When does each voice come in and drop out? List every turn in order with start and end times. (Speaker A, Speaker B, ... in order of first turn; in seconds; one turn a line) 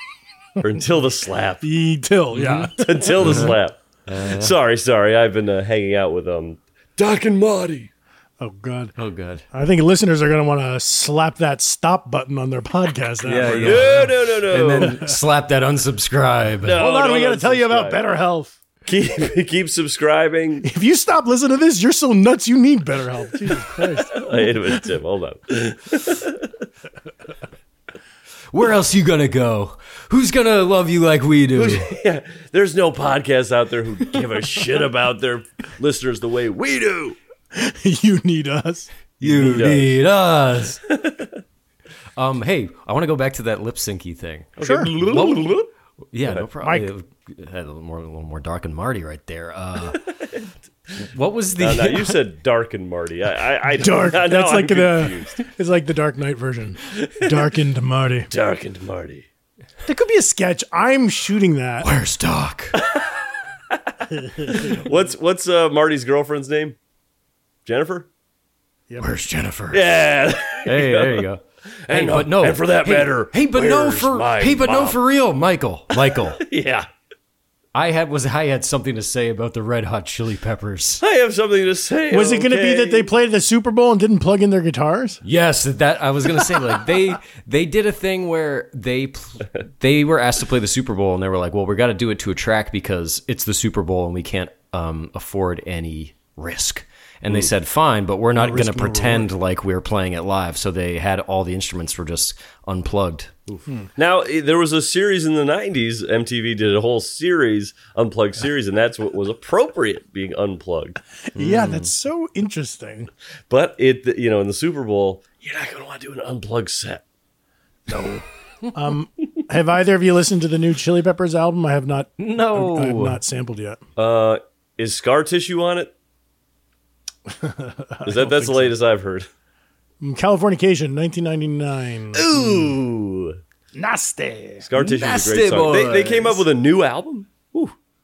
Speaker A: 0.6-1.6
Speaker B: 1.6-3.4
Speaker C: 2.3-4.5
Speaker A: 2.8-7.9
Speaker B: 8.4-8.9
Speaker C: 9.0-9.4
Speaker B: 9.5-14.1
Speaker C: 13.2-16.8
Speaker A: 13.6-15.0
Speaker B: 14.8-15.1
Speaker A: 16.6-18.1
Speaker B: 16.8-18.6
Speaker A: 18.9-20.6
Speaker B: 20.6-24.3
Speaker A: 24.1-26.4
Speaker C: 28.5-31.8
Speaker A: 31.5-37.2
Speaker B: 37.5-38.9
Speaker C: 39.2-40.8
Speaker A: 39.3-40.0
Speaker A: 40.9-41.3
Speaker C: 42.1-45.5
Speaker A: 44.6-45.7
Speaker B: 44.6-44.9
Speaker C: 46.1-50.0
Speaker B: 46.6-46.9
Speaker C: 51.1-52.2
Speaker A: 51.6-55.4
Speaker B: 53.8-58.3
Speaker A: 56.9-57.4
Speaker A: 58.3-59.2
Speaker B: 59.9-61.9
Speaker C: 61.8-62.8
Speaker A: 62.8-63.1
Speaker B: 64.4-64.8
Speaker A: 64.4-66.8
Speaker A: 67.7-68.1
Speaker C: 69.0-70.0
Speaker A: 69.7-71.2
Speaker C: 70.6-76.4
Speaker A: 71.9-75.0
Speaker A: 76.4-76.9
Speaker C: 77.7-81.0
Speaker A: 81.0-83.1
Speaker B: 82.1-85.2
Speaker C: 85.2-103.3
Speaker B: 98.3-99.3
Speaker A: 103.5-111.0
Speaker B: 111.3-113.1
Speaker C: 111.3-111.9
Speaker A: 113.5-117.0
Speaker B: 117.9-123.8
Speaker C: 122.2-123.2
Speaker A: 124.0-125.9
Speaker B: 127.3-128.7
Speaker A: 128.0-129.3
Speaker B: 130.0-132.7
Speaker A: 132.1-133.4
Speaker B: 133.7-134.6
Speaker A: 134.6-137.7
Speaker C: 134.8-136.4